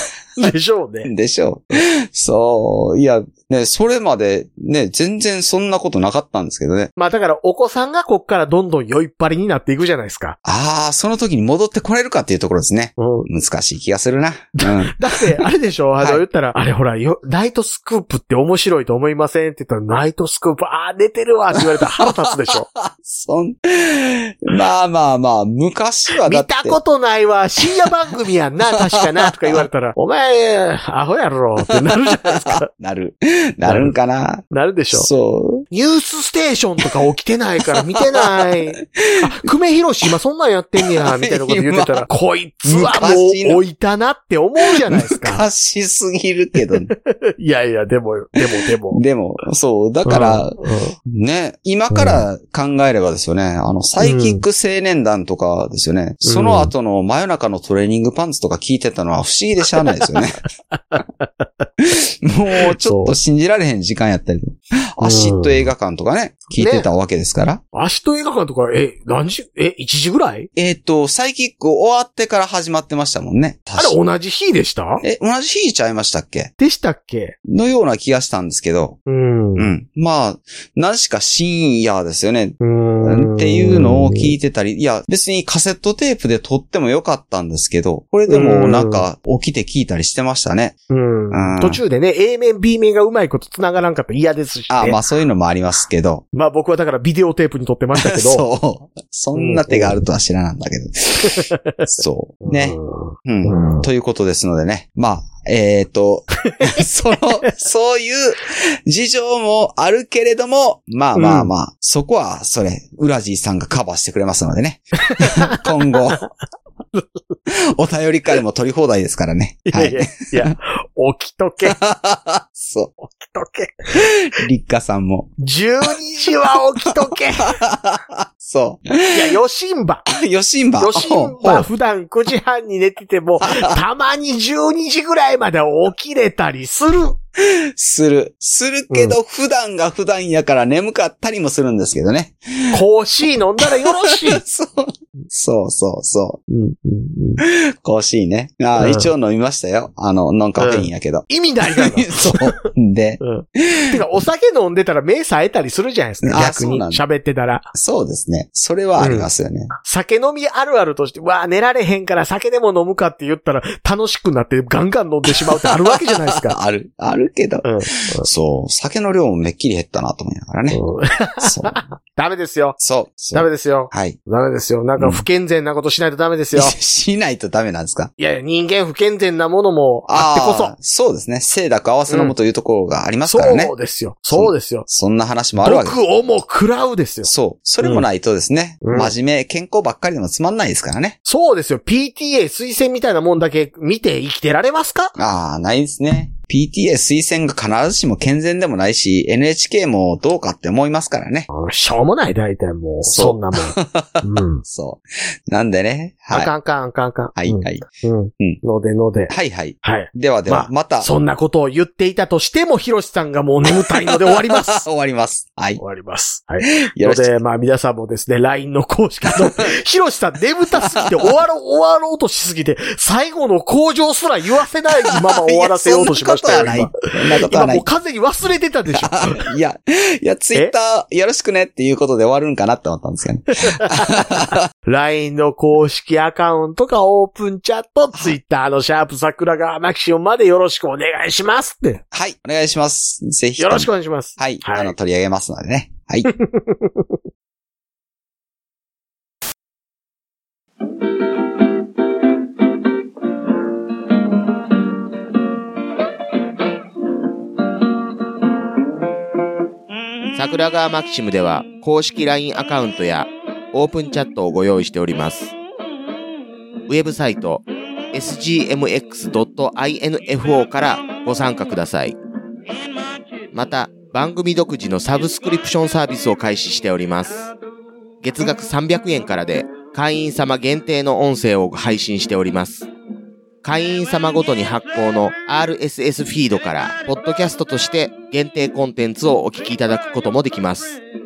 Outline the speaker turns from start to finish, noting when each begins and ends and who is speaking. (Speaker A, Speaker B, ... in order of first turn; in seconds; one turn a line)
Speaker A: 0.4-1.1
Speaker B: 1.0-6.9
Speaker A: 7.0-10.4
Speaker B: 10.4-15.4
Speaker A: 13.0-13.3
Speaker A: 14.6-22.7
Speaker B: 21.7-26.8
Speaker A: 26.2-32.7
Speaker B: 29.0-29.6
Speaker B: 31.7-35.6
Speaker A: 33.6-33.9
Speaker A: 34.5-35.1
Speaker A: 35.7-45.4
Speaker B: 37.7-39.5
Speaker B: 41.0-42.1
Speaker B: 42.6-43.6
Speaker B: 44.8-46.9
Speaker A: 47.0-49.0
Speaker B: 48.9-60.4
Speaker A: 50.0-50.9
Speaker A: 51.9-52.2
Speaker A: 54.0-54.4
Speaker A: 56.2-56.7
Speaker A: 60.7-61.5
Speaker B: 61.8-67.6
Speaker A: 62.7-63.2
Speaker A: 65.0-65.7
Speaker A: 66.5-66.9
Speaker A: 67.7-70.5
Speaker B: 70.5-74.0
Speaker A: 73.8-75.0
Speaker B: 75.0-76.5
Speaker A: 76.6-77.4
Speaker B: 77.4-79.0
Speaker A: 79.1-79.7
Speaker B: 79.5-90.8
Speaker A: 82.6-84.3
Speaker A: 88.3-89.0
Speaker A: 90.9-95.0
Speaker B: 91.3-91.8
Speaker B: 94.7-96.2
Speaker A: 96.3-98.4
Speaker B: 98.0-116.2
Speaker A: 99.3-100.0
Speaker A: 101.2-101.9
Speaker A: 102.4-103.9
Speaker A: 106.5-106.8
Speaker A: 111.1-111.5
Speaker A: 115.1-115.7
Speaker A: 116.9-117.4
Speaker B: 117.5-120.5
Speaker A: 119.7-121.8
Speaker B: 121.6-122.9
Speaker A: 123.0-124.0
Speaker B: 123.9-125.3
Speaker A: 125.4-127.6
Speaker B: 127.0-129.4
Speaker A: 129.1-130.1
Speaker B: 130.1-131.7
Speaker A: 130.8-137.2
Speaker B: 133.5-133.8
Speaker B: 137.4-142.8
Speaker A: 138.9-139.2
Speaker A: 142.7-144.4
Speaker B: 143.6-146.4
Speaker A: 146.5-147.4
Speaker B: 147.4-154.0
Speaker A: 148.8-149.1
Speaker A: 150.6-152.7
Speaker A: 153.2-157.7
Speaker B: 156.2-157.0
Speaker B: 157.7-159.7
Speaker A: 159.0-159.3
Speaker A: 159.8-166.6
Speaker B: 165.9-170.8
Speaker A: 167.6-168.3
Speaker A: 170.7-172.8
Speaker B: 171.4-171.8
Speaker B: 172.8-174.2
Speaker A: 173.3-176.7
Speaker B: 175.0-175.2
Speaker B: 176.5-178.1
Speaker A: 178.2-180.7
Speaker B: 180.1-183.7
Speaker A: 182.1-182.3
Speaker A: 183.2-184.9
Speaker B: 184.3-186.0
Speaker A: 185.6-187.3
Speaker B: 187.2-191.2
Speaker A: 188.8-189.1
Speaker A: 191.2-195.2
Speaker B: 195.2-201.5
Speaker A: 201.5-204.6
Speaker B: 203.0-206.5
Speaker A: 206.3-214.8
Speaker B: 207.4-207.8
Speaker B: 209.3-211.1
Speaker B: 213.7-215.8
Speaker A: 215.8-229.5
Speaker B: 216.6-217.3
Speaker B: 219.3-219.6
Speaker B: 225.1-227.9
Speaker B: 228.9-234.6
Speaker A: 233.6-242.0
Speaker B: 242.1-246.3
Speaker A: 243.6-244.9
Speaker A: 246.2-247.0
Speaker C: 260.3-265.5
Speaker C: 266.9-272.2
Speaker C: 273.5-277.5
Speaker C: 278.2-282.9
Speaker C: 283.6-291.0